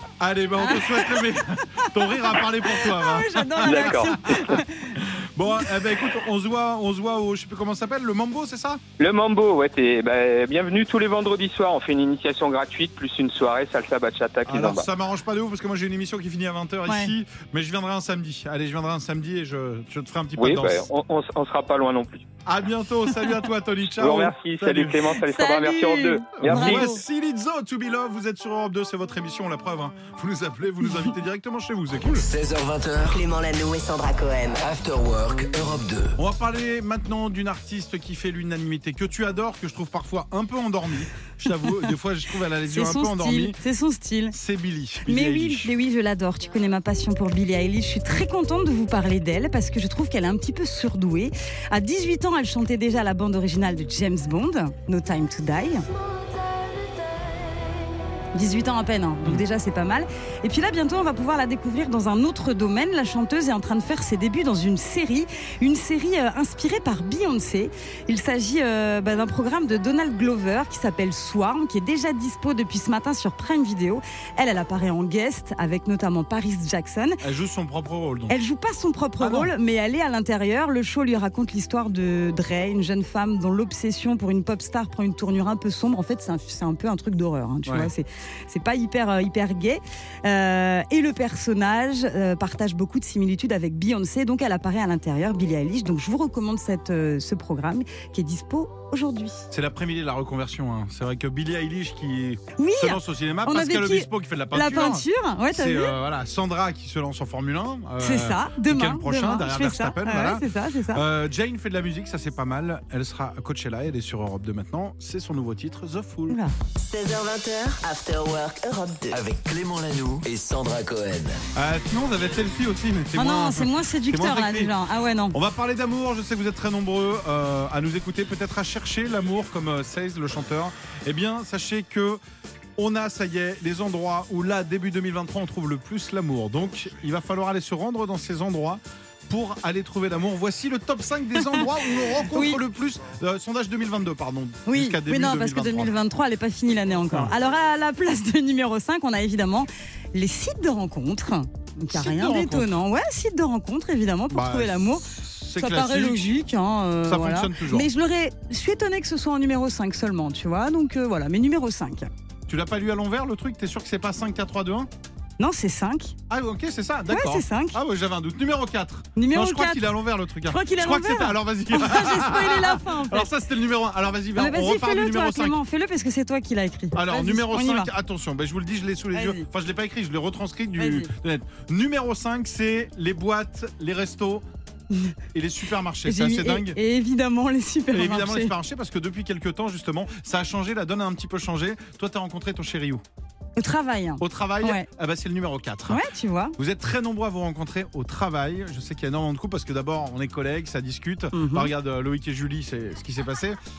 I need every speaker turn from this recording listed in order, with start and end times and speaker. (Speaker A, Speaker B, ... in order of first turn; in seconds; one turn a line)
Speaker A: 0.2-8.8
Speaker B: 0.6-1.9
Speaker B: 2.7-5.0
Speaker C: 3.6-4.5
Speaker C: 9.0-14.9
Speaker A: 14.4-20.9
Speaker B: 16.9-17.1
Speaker C: 20.4-22.2
Speaker A: 22.5-25.1
Speaker C: 24.0-26.9
Speaker B: 25.2-27.0
Speaker A: 26.4-32.3
Speaker D: 32.2-33.2
Speaker E: 33.1-34.6
Speaker D: 34.6-36.2
Speaker A: 36.2-43.6
Speaker B: 42.7-44.4
Speaker A: 44.3-45.7
Speaker B: 45.1-55.9
Speaker B: 58.3-77.2
Speaker A: 77.2-78.3
Speaker B: 78.3-99.5
Speaker A: 79.2-79.5
Speaker A: 99.5-116.4
Speaker B: 102.6-105.9
Speaker B: 108.0-111.0
Speaker B: 116.3-116.5
Speaker E: 116.8-119.2
Speaker D: 119.1-121.4
Speaker A: 121.5-124.7
Speaker B: 123.2-125.4
Speaker A: 125.3-132.2
Speaker A: 132.8-145.9
Speaker B: 142.3-142.6
Speaker B: 144.7-155.1
Speaker A: 151.9-152.8
Speaker A: 154.3-156.3
Speaker B: 155.6-162.1
Speaker A: 157.1-157.9
Speaker A: 162.5-164.9
Speaker B: 165.4-166.2
Speaker A: 166.3-175.6
Speaker B: 167.1-167.8
Speaker B: 169.2-169.8
Speaker B: 170.5-173.3
Speaker B: 174.4-177.9
Speaker A: 176.9-184.4
Speaker B: 179.1-179.5
Speaker B: 180.8-181.1
Speaker A: 185.3-186.8
Speaker B: 186.1-188.5
Speaker A: 187.9-193.0
Speaker B: 193.6-194.9
Speaker A: 194.2-196.0
Speaker B: 195.9-196.6
Speaker A: 196.6-203.6
Speaker B: 201.3-201.7